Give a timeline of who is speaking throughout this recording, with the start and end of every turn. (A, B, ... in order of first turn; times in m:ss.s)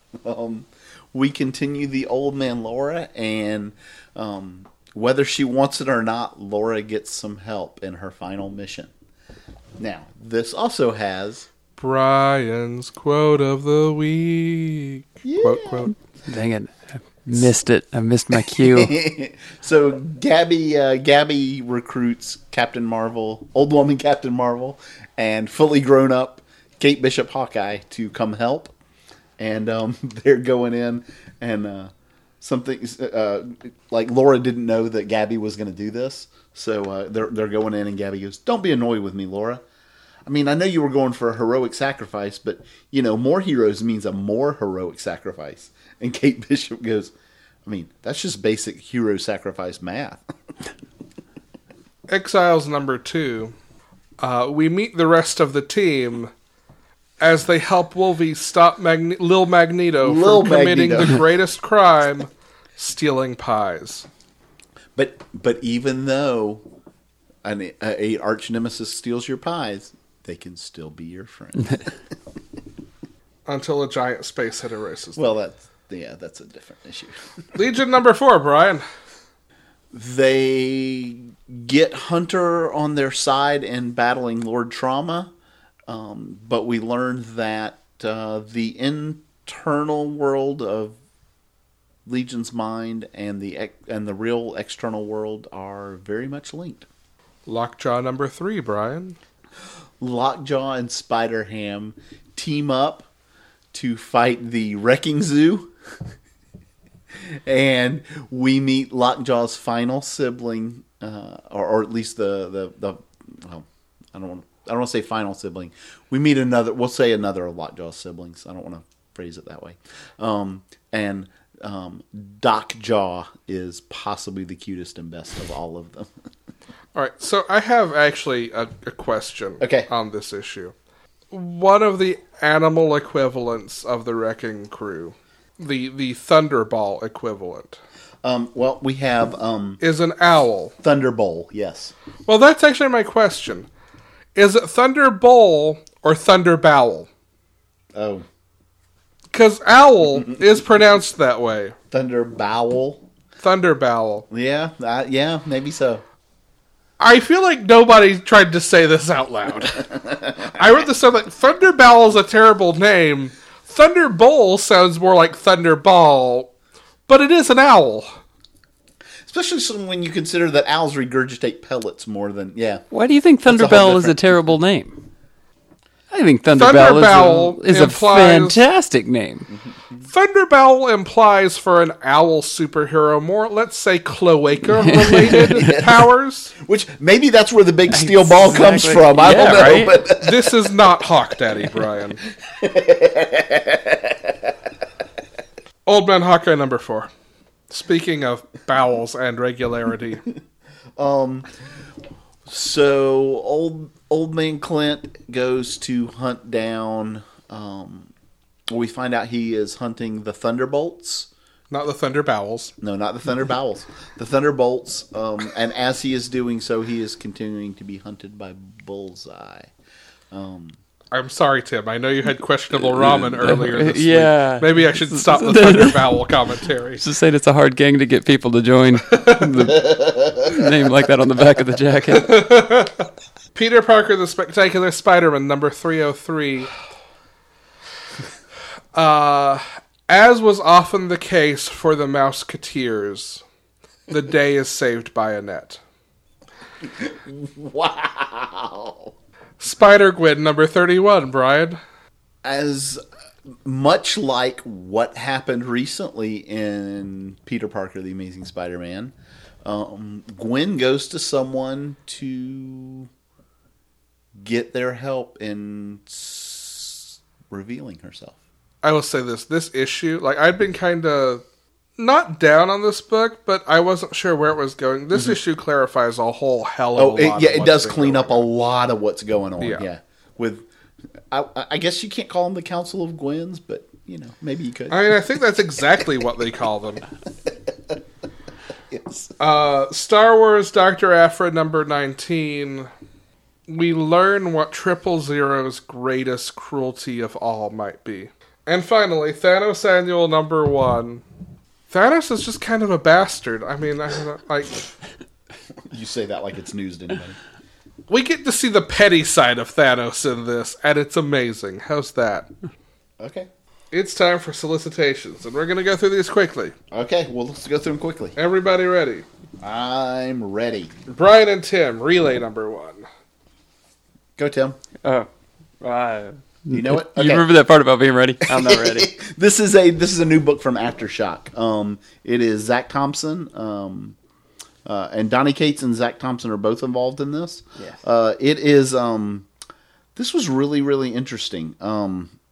0:00.2-0:08.9 A
0:09.8-0:11.5 A
0:11.8-0:15.9 B
0:15.2-0:15.9 A
0:16.3-0:19.0 C
0:18.4-0:28.7 A
0:29.4-0:39.6 A
0:40.3-0:47.1 A
0:47.6-0:50.2 A
0:52.1-0:53.5 B
0:54.2-0:56.3 B
0:57.2-1:04.1 B
1:00.0-1:01.2 A
1:05.0-1:06.6 A
1:07.4-1:12.0 A
1:13.5-1:15.3 B
1:15.2-1:17.2 A
1:17.6-1:18.8 B
1:19.9-1:25.3 A
1:25.9-1:31.0 A
1:32.1-1:36.9 A
1:37.5-1:39.2 B
1:40.0-1:43.1 A
1:43.7-1:45.7 A
1:47.3-2:06.1 A
2:07.0-2:10.7 B
2:09.6-2:09.9 A
2:11.3-2:17.8 B
2:18.2-2:19.8 A
2:19.8-2:20.7 B
2:20.8-2:21.9 A
2:22.3-2:23.7 B
2:24.4-2:27.1 B
2:28.0-2:28.2 A
2:29.3-2:31.8 B
2:31.9-2:33.0 A
2:33.4-2:34.3 B
2:34.3-2:36.0 A
2:37.0-2:39.9 B
2:39.8-2:40.6 A
2:40.4-2:46.5 B
2:47.1-2:48.2 B
2:49.3-2:52.8 A
2:52.9-2:55.0 C
2:53.5-2:54.2 A
2:56.1-2:59.5 C
2:56.6-2:58.6 B
2:59.5-3:00.0 A
3:00.1-3:06.5 B
3:04.8-3:05.8 C
3:05.6-3:06.0 A
3:06.6-3:10.6 A
3:07.9-3:10.0 C
3:10.0-3:12.2 B
3:12.4-3:14.6 A
3:15.9-3:17.1 B
3:17.7-3:20.2 B
3:21.0-3:21.5 A
3:22.5-3:28.1 A
3:28.7-3:31.3 A
3:31.7-3:32.7 B
3:32.8-3:39.7 A
3:40.3-3:40.8 A
3:41.1-3:47.0 B
3:43.3-3:46.1 C
3:47.0-3:52.4 C
3:49.1-3:49.7 B
3:49.7-3:50.7 A
3:52.1-3:56.7 B
3:58.9-4:03.4 B
4:04.1-4:05.8 B
4:06.8-4:09.1 A
4:09.6-4:11.8 B
4:12.4-4:13.0 A
4:13.6-4:23.1 A
4:24.4-4:28.4 A
4:28.8-4:31.4 B
4:32.0-4:38.4 B
4:37.0-4:40.7 A
4:39.6-4:39.8 B
4:41.3-4:45.1 A
4:44.9-4:47.0 B
4:47.5-4:48.0 A
4:48.9-4:49.3 A
4:49.4-4:52.9 B
4:53.7-5:01.2 B
5:01.9-5:04.9 B
5:05.9-5:07.4 A
5:08.1-5:12.5 B
5:13.2-5:13.5 A
5:13.9-5:16.8 B
5:16.9-5:18.4 A
5:18.4-5:19.3 B
5:19.6-5:21.0 A
5:21.1-5:23.1 B
5:24.4-5:24.8 A
5:25.0-5:25.3 C
5:25.8-5:29.1 C
5:26.7-5:27.5 A
5:28.4-5:34.2 A
5:34.8-5:39.5 A
5:40.2-5:42.3 A